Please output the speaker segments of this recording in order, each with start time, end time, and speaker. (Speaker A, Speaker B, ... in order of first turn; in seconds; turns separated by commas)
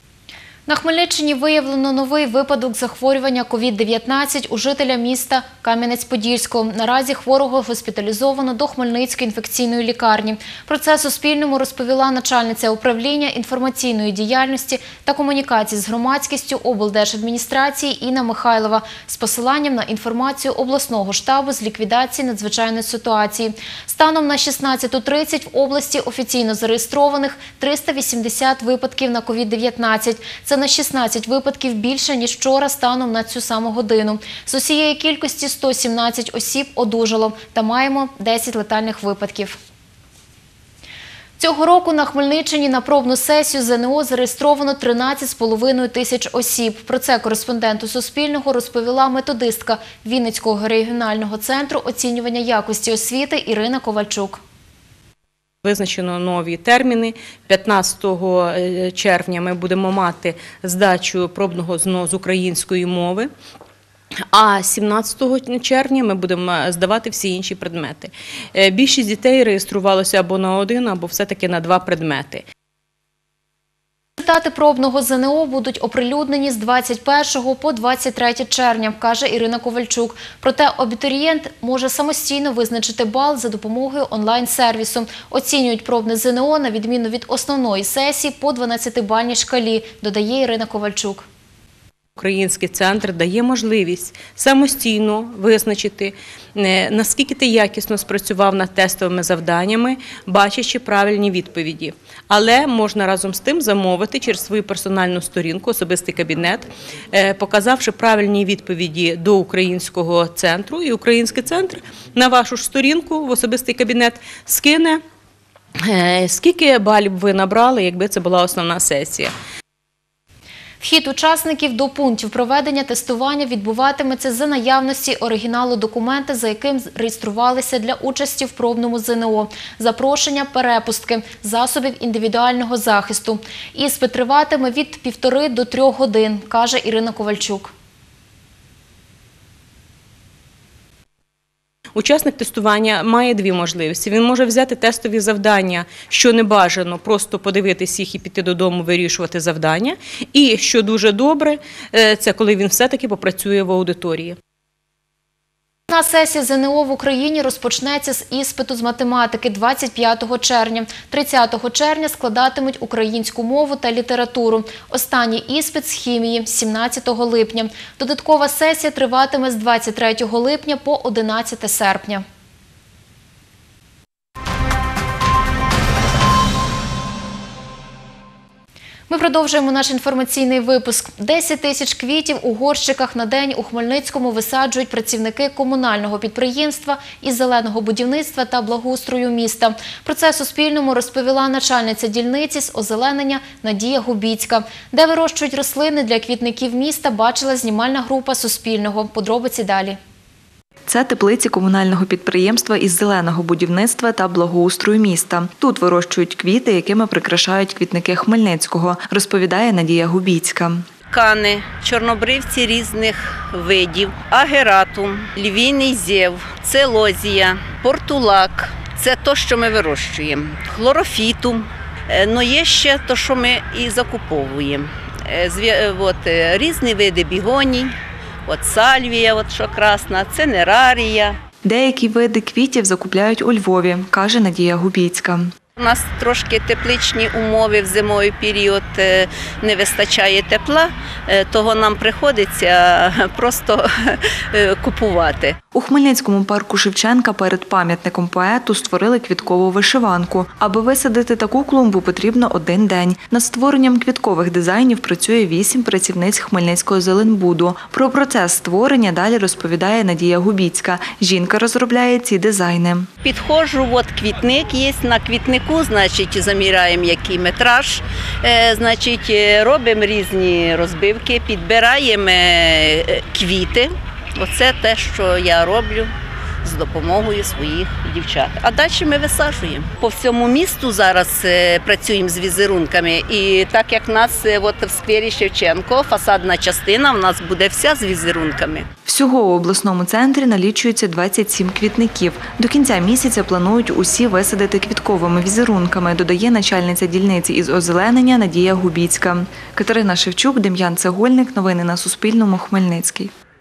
Speaker A: 0.7-39.6, Speaker A: 41.4-54.4, Speaker B: 55.6-63.3, Speaker B: 64.3-72.4, Speaker A: 74.2-91.2, Speaker B: 92.2-115.0, Speaker B: 115.8-119.3, Speaker A: 120.8-137.7, Speaker B: 141.9-154.3, Speaker A: 155.9-172.2, Speaker A: 179.1-200.0, Speaker C: 200.9-210.9, Speaker D: 211.1-227.9, Speaker D: 228.5-231.3, Speaker C: 231.6-235.5, Speaker D: 235.8-245.6, Speaker C: 245.7-263.1, Speaker D: 263.2-276.1, Speaker D: 276.6-288.9, Speaker C: 289.1-303.3